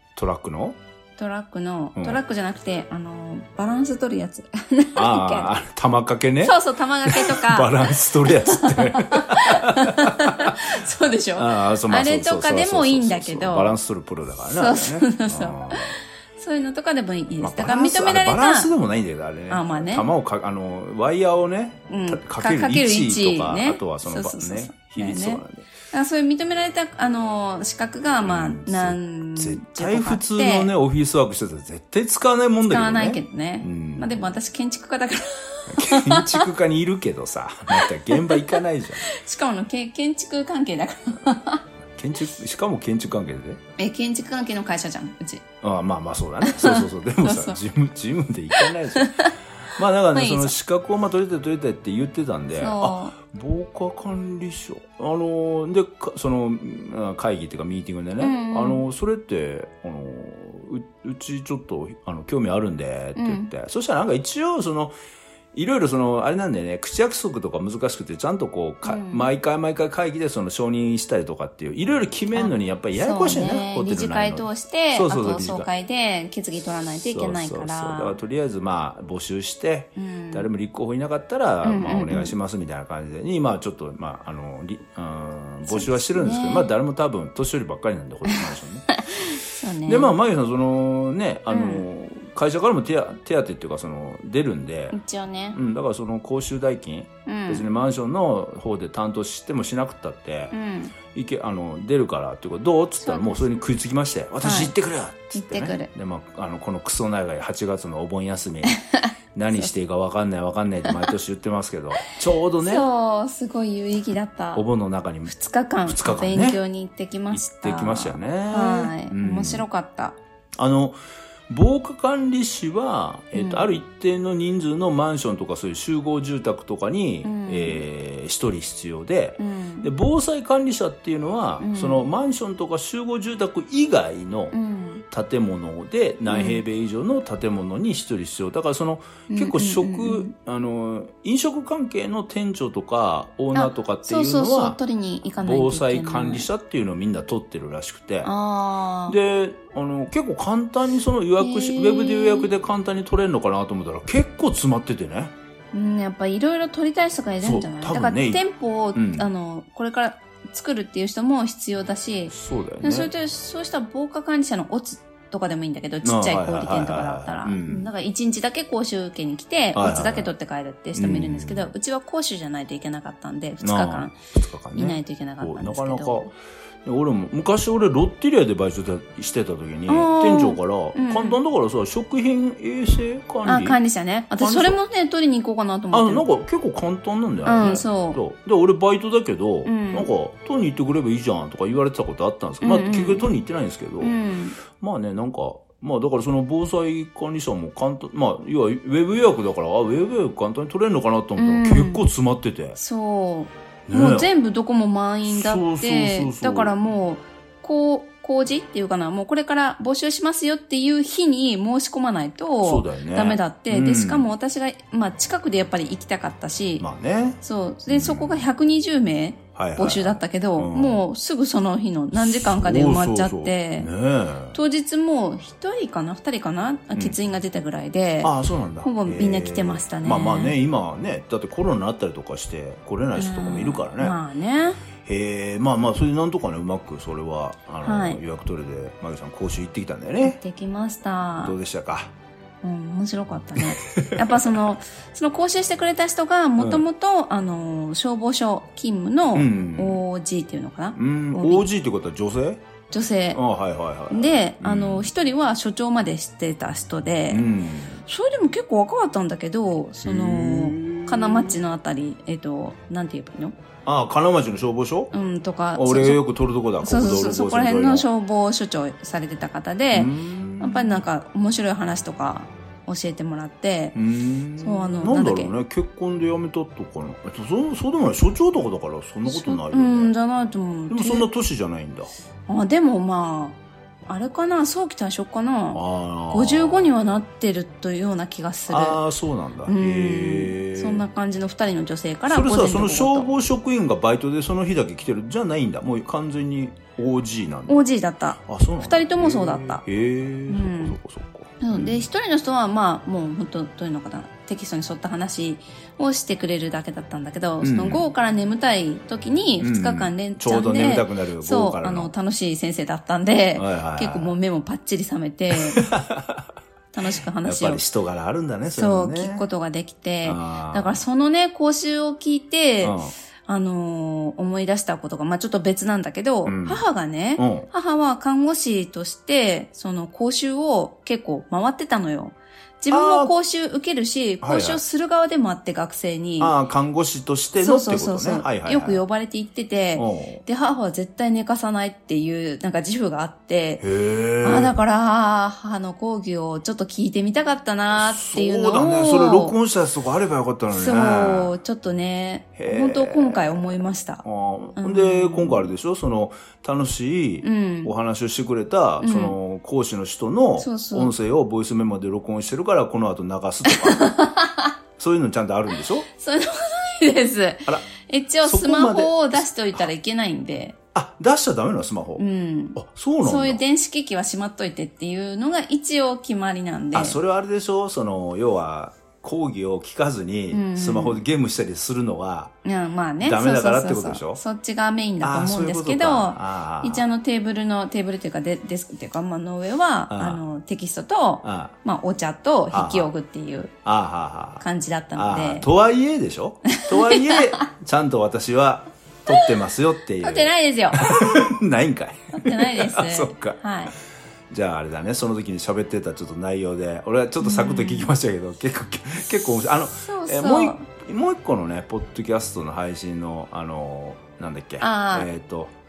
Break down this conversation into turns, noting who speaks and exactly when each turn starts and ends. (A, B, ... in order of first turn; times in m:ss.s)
0:00.2-0:00.8 A
0:01.2-0:05.5 B
0:04.9-0:10.8 A
0:06.4-0:13.8 B
0:11.3-0:16.0 A
0:14.5-0:18.7 B
0:17.4-0:25.6 A
0:19.5-0:20.1 B
0:21.9-0:30.7 B
0:28.2-0:34.2 A
0:32.7-0:36.5 B
0:35.7-0:39.1 A
0:37.7-0:41.6 B
0:42.0-0:43.6 A
0:43.8-0:45.4 B
0:45.6-1:04.9 A
0:46.4-0:47.6 B
0:48.5-0:49.3 B
0:50.1-0:50.5 B
0:52.6-0:53.2 B
0:58.2-0:58.8 B
1:03.2-1:03.5 B
1:05.5-1:15.7 A
1:08.8-1:09.3 B
1:12.3-1:18.2 B
1:17.0-1:28.9 A
1:20.0-1:20.5 B
1:21.6-1:22.3 B
1:25.7-1:26.7 B
1:28.3-1:30.1 B
1:29.8-1:35.0 A
1:31.5-1:31.8 B
1:34.9-1:35.6 B
1:35.5-1:40.5 A
1:37.2-1:37.6 B
1:40.5-1:40.9 B
1:41.1-1:48.8 A
1:43.0-1:43.5 B
1:44.4-1:44.7 B
1:45.3-1:45.9 B
1:48.7-1:49.7 B
1:49.3-1:52.8 A
1:52.6-1:54.6 B
1:54.5-1:55.3 A
1:55.3-2:00.2 B
1:55.8-1:56.6 A
1:57.3-1:59.6 A
2:00.6-2:01.0 A
2:01.5-2:14.5 A
2:03.3-2:03.7 B
2:07.2-2:07.8 B
2:09.4-2:09.9 B
2:11.6-2:12.0 B
2:14.5-2:15.0 B
2:15.1-2:24.8 A
2:16.3-2:16.6 B
2:19.3-2:20.3 B
2:23.5-2:26.5 B
2:25.4-2:28.3 A
2:28.2-2:29.2 B
2:29.1-2:35.3 A
2:31.4-2:32.5 B
2:35.7-2:54.1 B
2:37.4-2:38.4 A
2:38.9-2:39.3 A
2:42.3-2:43.1 A
2:46.0-2:47.9 A
2:49.7-2:50.3 A
2:50.9-2:51.7 A
2:53.6-2:56.3 A
2:54.7-2:56.3 B
2:56.8-3:03.8 A
2:59.9-3:01.4 B
3:03.4-3:06.2 B
3:04.4-3:04.8 A
3:05.9-3:14.1 A
3:07.4-3:08.2 B
3:09.6-3:10.1 B
3:12.6-3:13.3 B
3:14.0-3:14.6 B
3:14.7-3:22.8 A
3:21.4-3:22.0 B
3:22.7-3:36.8 B
3:23.9-3:24.3 A
3:25.3-3:26.7 A
3:32.6-3:34.3 A
3:36.8-3:38.4 A
3:37.4-3:43.9 B
3:39.5-3:41.0 A
3:42.1-3:44.6 A
3:44.5-3:50.5 B
3:48.2-3:54.2 A
3:53.2-3:54.8 B
3:55.0-4:00.4 A
3:57.8-3:58.2 B
4:00.2-4:01.6 B
4:01.4-4:02.1 A
4:02.6-4:11.6 B
4:03.6-4:04.6 A
4:06.6-4:06.8 A
4:09.3-4:10.0 A
4:11.0-4:12.6 A
4:12.9-4:13.4 B
4:13.3-4:15.1 A
4:14.1-4:17.4 B
4:17.3-4:18.0 A
4:18.1-4:23.6 B
4:20.0-4:21.6 A
4:23.8-4:25.1 A
4:25.1-4:26.2 B
4:25.7-4:28.1 A
4:26.8-4:34.0 B
4:29.9-4:31.0 A
4:33.9-4:40.1 A
4:34.6-4:35.5 B
4:39.3-4:41.3 B
4:40.9-4:42.1 A
4:42.5-4:49.0 B
4:45.7-4:46.9 A
4:48.7-4:51.0 A
4:49.6-4:53.3 B
4:52.3-4:57.8 A
4:57.7-4:59.8 B
4:58.5-5:02.1 A
5:00.5-5:01.0 B
5:01.6-5:15.9 B
5:07.6-5:08.0 A
5:09.6-5:12.1 A
5:13.6-5:14.3 A
5:15.5-5:16.5 A
5:16.9-5:17.8 B
5:17.4-5:19.4 A
5:18.7-5:36.5 B
5:20.2-5:21.0 A
5:22.8-5:23.1 A
5:26.4-5:26.8 A
5:27.4-5:27.7 A
5:32.9-5:33.3 A
5:34.4-5:34.8 A
5:36.4-5:39.0 A
5:37.6-5:43.8 B
5:40.0-5:40.4 A
5:43.8-5:44.7 A
5:44.4-5:49.6 B
5:47.9-5:51.5 A
5:50.7-5:54.2 B
5:52.6-6:04.0 A
5:54.8-5:55.7 B
5:57.4-5:57.9 B
5:59.0-5:59.3 B
6:00.6-6:01.1 B
6:03.6-6:04.7 B
6:05.0-6:06.1 A
6:06.1-6:10.8 B
6:08.4-6:09.8 A
6:10.9-6:12.2 A
6:12.2-6:17.2 B
6:12.7-6:13.6 A
6:16.9-6:22.5 A
6:20.5-6:21.2 B
6:22.6-6:33.7 B
6:23.2-6:24.4 A
6:25.2-6:27.0 A
6:30.1-6:30.4 A
6:31.4-6:31.7 A
6:32.7-6:33.1 A
6:33.8-6:34.6 A
6:34.6-6:35.7 B
6:35.2-6:43.6 A
6:36.7-6:37.7 B
6:40.2-6:41.4 B
6:42.3-6:43.9 B
6:44.5-6:55.7 A
6:47.4-6:48.1 B
6:50.0-6:50.9 B
6:54.8-6:55.3 B